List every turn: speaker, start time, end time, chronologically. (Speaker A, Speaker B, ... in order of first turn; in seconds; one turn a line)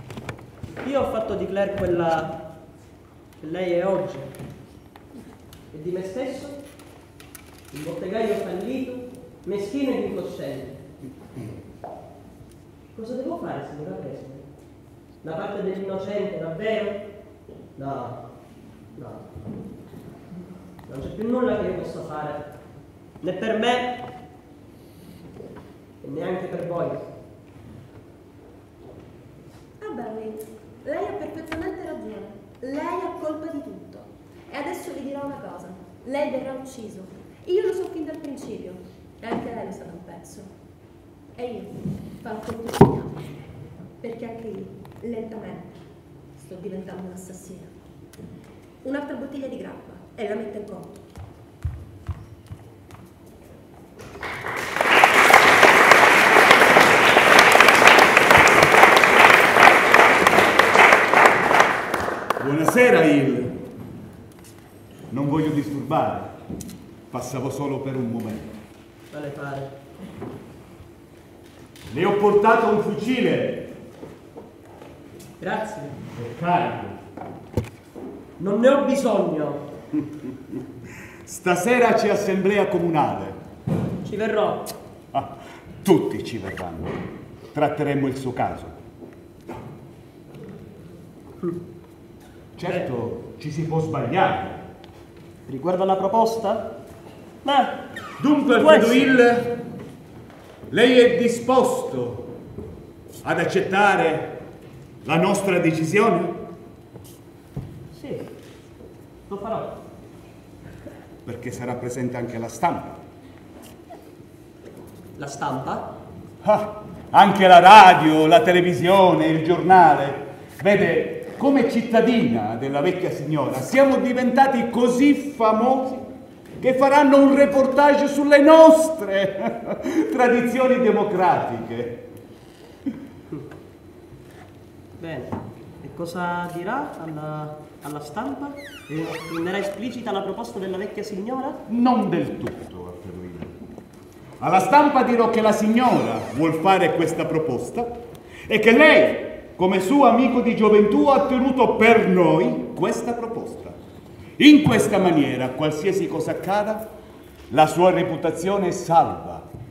Speaker A: 0.8-2.4
Speaker A: 3.4-4.3
Speaker A: 5.7-6.6
Speaker A: 7.7-10.8
Speaker A: 12.9-14.5
Speaker A: 15.2-17.0
Speaker A: 17.8-18.2
Speaker A: 18.9-19.2
Speaker A: 20.9-22.5
Speaker A: 23.2-24.0
Speaker A: 26.0-27.0
Speaker B: 29.8-40.5
Speaker B: 41.4-43.4
Speaker B: 44.0-45.8
Speaker B: 46.4-47.7
Speaker B: 48.8-51.0
Speaker C: 62.4-63.5
Speaker C: 65.1-66.3
Speaker C: 67.1-68.5
Speaker A: 69.1-69.7
Speaker C: 71.9-73.7
Speaker A: 75.4-76.0
Speaker C: 76.1-77.0
Speaker A: 78.4-79.6
Speaker C: 80.2-80.5
Speaker C: 81.2-83.4
Speaker A: 84.0-84.7
Speaker C: 85.1-87.0
Speaker C: 87.5-88.8
Speaker C: 92.5-94.6
Speaker A: 95.5-96.8
Speaker A: 97.4-97.8
Speaker C: 98.2-99.5
Speaker A: 98.5-99.2
Speaker C: 100.7-102.3
Speaker C: 103.2-104.4
Speaker C: 105.0-106.4
Speaker A: 107.9-108.3
Speaker A: 109.3-109.8
Speaker C: 111.2-113.0
Speaker A: 115.2-115.9
Speaker C: 116.4-126.0
Speaker C: 126.6-132.0
Speaker A: 135.0-141.6
Speaker C: 141.7-143.6
Speaker C: 144.4-153.8
Speaker C: 154.4-156.9
Speaker C: 157.5-159.5